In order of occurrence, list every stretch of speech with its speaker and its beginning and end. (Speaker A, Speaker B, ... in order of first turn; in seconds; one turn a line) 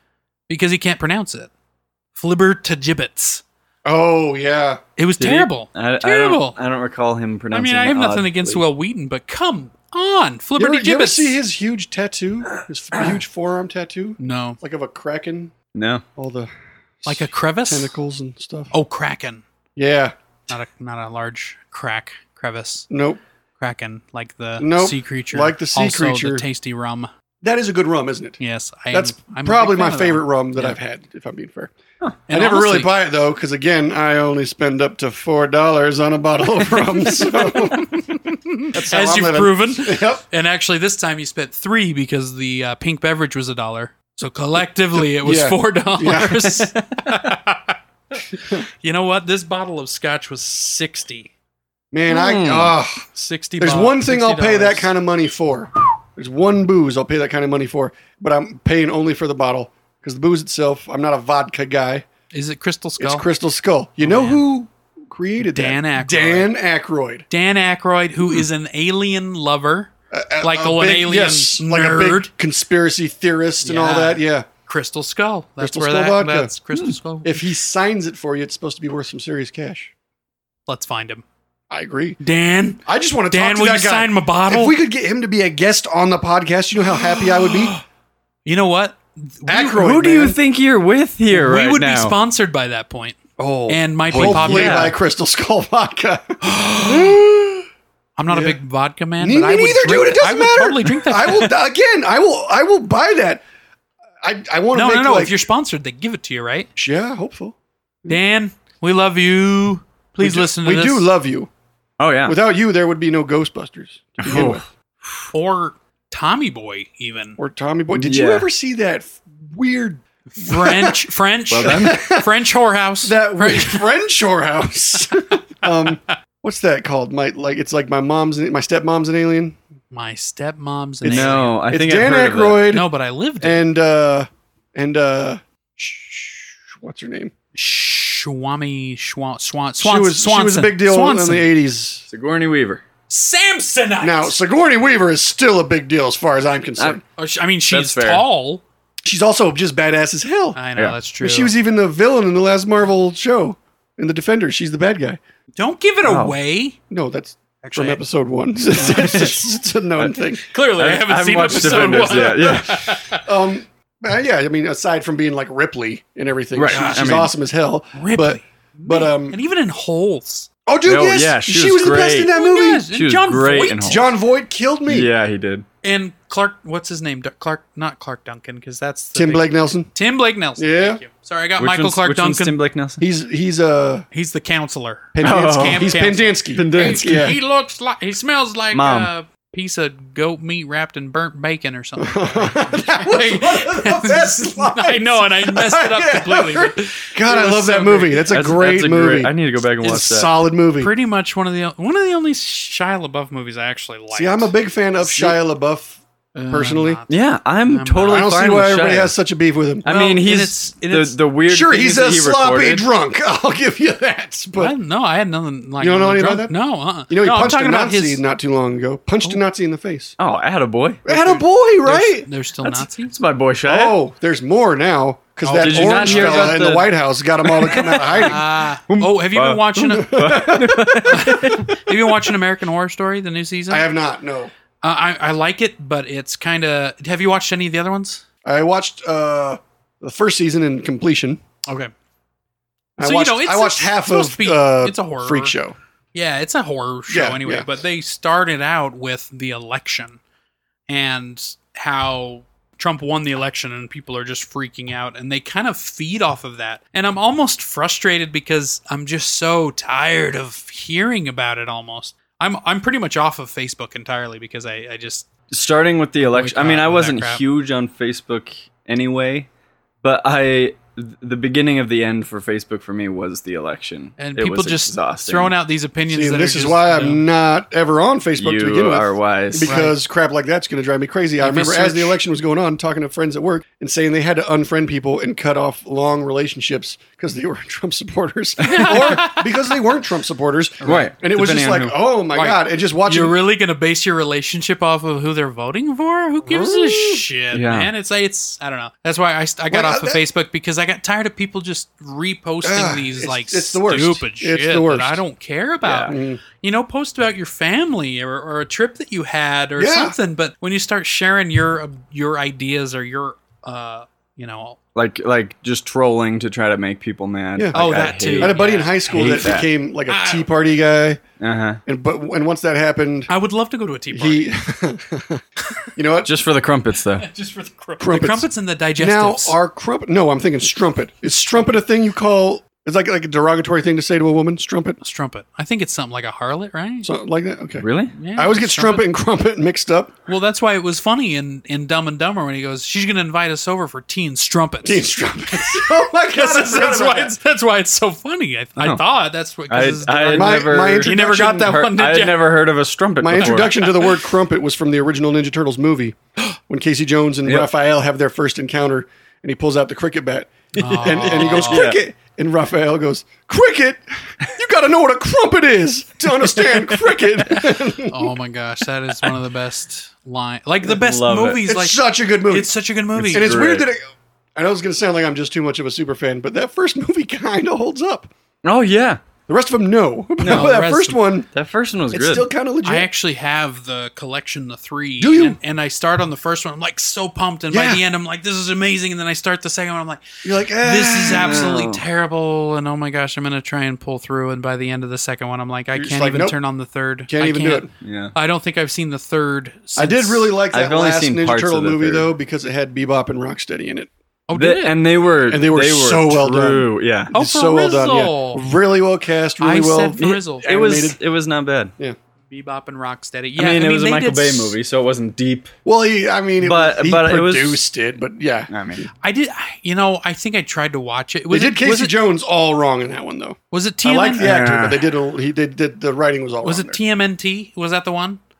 Speaker A: 0.5-1.5
Speaker A: 2.1-3.4
Speaker B: 3.8-4.8
Speaker A: 5.0-6.6
Speaker C: 5.2-8.6
Speaker A: 7.5-11.4
Speaker B: 10.6-15.5
Speaker A: 14.2-14.6
Speaker C: 15.7-16.0
Speaker B: 16.2-16.5
Speaker B: 17.0-18.7
Speaker A: 17.1-17.9
Speaker A: 18.7-19.4
Speaker B: 19.8-20.1
Speaker A: 20.5-22.9
Speaker B: 22.9-23.2
Speaker A: 23.6-27.1
Speaker B: 24.6-26.4
Speaker B: 27.4-28.4
Speaker A: 28.4-30.8
Speaker B: 28.9-31.7
Speaker A: 32.3-32.9
Speaker B: 32.3-38.2
Speaker A: 36.8-47.8
Speaker B: 38.7-40.2
Speaker B: 45.1-46.6
Speaker C: 47.0-47.3
Speaker A: 48.4-51.3
Speaker B: 51.9-53.0
Speaker C: 52.1-52.8
Speaker A: 53.1-54.9
Speaker B: 53.6-62.0
Speaker A: 62.3-63.2
Speaker B: 63.0-67.2
Speaker A: 64.0-64.4
Speaker A: 65.4-66.5
Speaker A: 67.3-69.9
Speaker B: 70.1-74.5
Speaker A: 70.4-72.3
Speaker A: 73.6-77.4
Speaker B: 75.6-76.5
Speaker B: 77.2-79.9
Speaker A: 80.7-81.2
Speaker B: 81.7-82.2
Speaker A: 82.2-84.7
Speaker B: 82.8-87.8
Speaker A: 88.5-89.8
Speaker B: 89.5-90.4
Speaker C: 89.8-92.2
Speaker A: 91.3-93.2
Speaker B: 93.4-97.6
Speaker A: 93.7-94.9
Speaker C: 94.1-95.0
Speaker A: 96.5-97.1
Speaker A: 98.2-101.5
Speaker B: 98.3-98.6
Speaker B: 99.2-103.4
Speaker B: 104.2-105.3
Speaker A: 104.7-106.7
Speaker B: 106.8-108.2
Speaker A: 108.1-111.1
Speaker B: 110.2-111.5
Speaker C: 112.0-112.3
Speaker B: 112.2-114.6
Speaker C: 114.2-114.6
Speaker A: 115.3-117.4
Speaker B: 117.4-121.0
Speaker C: 118.0-118.5
Speaker A: 120.3-123.8
Speaker C: 121.5-122.0
Speaker B: 121.6-122.4
Speaker B: 123.0-129.6
Speaker A: 129.9-131.6
Speaker B: 131.0-132.9
Speaker C: 131.0-132.7
Speaker A: 132.7-133.7
Speaker B: 133.4-137.3
Speaker A: 137.5-141.5
Speaker B: 139.8-142.0
Speaker C: 142.1-142.8
Speaker A: 143.1-144.3
Speaker B: 144.0-147.0
Speaker A: 147.2-148.6
Speaker C: 147.7-148.2
Speaker B: 149.0-150.6
Speaker A: 150.5-151.5
Speaker B: 151.2-155.2
Speaker A: 155.6-156.8
Speaker C: 156.0-156.3
Speaker B: 156.9-160.5
Speaker A: 157.6-158.0
Speaker C: 158.8-159.4
Speaker A: 158.8-159.1
Speaker A: 160.5-163.3
Speaker C: 160.7-163.0
Speaker B: 161.7-169.4
Speaker C: 166.5-167.3
Speaker A: 166.7-167.1
Speaker A: 167.9-170.5
Speaker B: 170.7-172.9
Speaker C: 170.8-172.3
Speaker A: 171.8-174.0
Speaker C: 172.9-174.1
Speaker B: 173.8-175.1
Speaker C: 174.9-175.7
Speaker A: 175.8-182.6
Speaker B: 179.1-179.9
Speaker B: 180.6-181.0
Speaker C: 181.6-183.0
Speaker B: 183.0-184.1
Speaker A: 184.1-198.3
Speaker B: 185.1-187.4
Speaker C: 185.2-185.9
Speaker C: 186.5-187.3
Speaker C: 188.7-189.1
Speaker B: 192.0-200.9
Speaker C: 198.3-200.3
Speaker A: 200.8-204.5
Speaker B: 204.1-207.0
Speaker A: 205.1-205.3
Speaker A: 206.3-207.1
Speaker C: 207.1-209.1
Speaker A: 207.7-208.2
Speaker B: 208.0-209.8
Speaker C: 209.8-212.9
Speaker A: 209.8-211.2
Speaker B: 211.5-214.7
Speaker A: 214.6-218.2
Speaker B: 215.8-216.5
Speaker B: 217.1-220.2
Speaker C: 220.2-221.0
Speaker B: 221.1-222.3
Speaker A: 221.1-223.1
Speaker C: 222.6-224.0
Speaker B: 223.7-228.4
Speaker A: 225.4-226.6
Speaker C: 225.6-226.9
Speaker C: 227.4-232.1
Speaker A: 227.9-230.5
Speaker B: 230.0-231.2
Speaker A: 231.1-233.8
Speaker B: 233.7-234.5
Speaker A: 234.8-238.2
Speaker B: 238.4-241.4
Speaker A: 241.7-241.9
Speaker B: 243.0-245.8
Speaker A: 243.0-245.5
Speaker A: 246.1-250.2
Speaker B: 247.1-247.7
Speaker A: 250.9-265.3
Speaker C: 265.5-269.5
Speaker A: 266.3-267.4
Speaker C: 270.0-275.5
Speaker A: 274.2-277.2
Speaker B: 276.1-293.4
Speaker C: 278.4-279.8
Speaker A: 279.6-280.0
Speaker A: 281.4-282.2
Speaker A: 288.6-289.7
Speaker A: 290.8-291.1
Speaker C: 290.8-291.9
Speaker A: 292.3-314.8
Speaker B: 296.4-297.2
Speaker C: 297.5-297.9
Speaker B: 299.7-300.2
Speaker B: 302.6-305.2
Speaker C: 305.8-306.1
Speaker B: 306.1-306.4
Speaker B: 309.8-310.1
Speaker C: 314.9-319.7
Speaker B: 317.6-321.2
Speaker A: 317.7-319.6
Speaker A: 320.1-320.5
Speaker C: 321.4-321.8
Speaker B: 321.9-323.3
Speaker A: 323.3-324.5
Speaker B: 324.1-325.4
Speaker B: 325.9-326.3
Speaker C: 326.2-327.3
Speaker A: 327.2-329.6
Speaker B: 328.0-328.4
Speaker B: 329.0-335.0
Speaker A: 335.0-337.1
Speaker B: 337.0-340.1
Speaker C: 337.8-338.1
Speaker A: 338.1-339.1
Speaker A: 340.3-352.4
Speaker B: 344.8-347.3
Speaker C: 348.8-349.0
Speaker C: 349.7-353.9
Speaker B: 350.3-351.9
Speaker B: 353.2-368.3
Speaker A: 353.4-354.1
Speaker A: 360.8-361.9
Speaker C: 360.8-362.0
Speaker A: 367.5-373.6
Speaker C: 370.8-371.6
Speaker B: 371.7-372.7
Speaker C: 373.1-373.9
Speaker B: 373.3-374.0
Speaker B: 374.6-378.3
Speaker C: 378.6-379.2
Speaker B: 379.5-381.5
Speaker C: 380.4-380.7
Speaker A: 380.4-381.2
Speaker C: 381.5-382.5
Speaker B: 382.1-383.1
Speaker A: 382.8-400.5
Speaker B: 385.2-385.6
Speaker B: 387.7-388.0
Speaker B: 390.4-391.8
Speaker C: 391.3-392.0
Speaker B: 395.9-396.6
Speaker B: 397.3-397.9
Speaker C: 398.0-398.3
Speaker B: 400.0-404.1
Speaker C: 400.7-402.3
Speaker A: 404.5-404.9
Speaker C: 404.5-407.3
Speaker B: 405.5-411.2
Speaker A: 407.3-408.6
Speaker A: 409.6-410.7
Speaker C: 410.2-411.9
Speaker A: 412.5-414.8
Speaker C: 413.6-415.7
Speaker B: 415.8-418.7
Speaker C: 416.6-417.8
Speaker C: 418.7-419.1
Speaker A: 419.2-422.1
Speaker B: 421.5-427.0
Speaker A: 423.7-424.5
Speaker C: 424.4-425.1
Speaker A: 426.6-428.4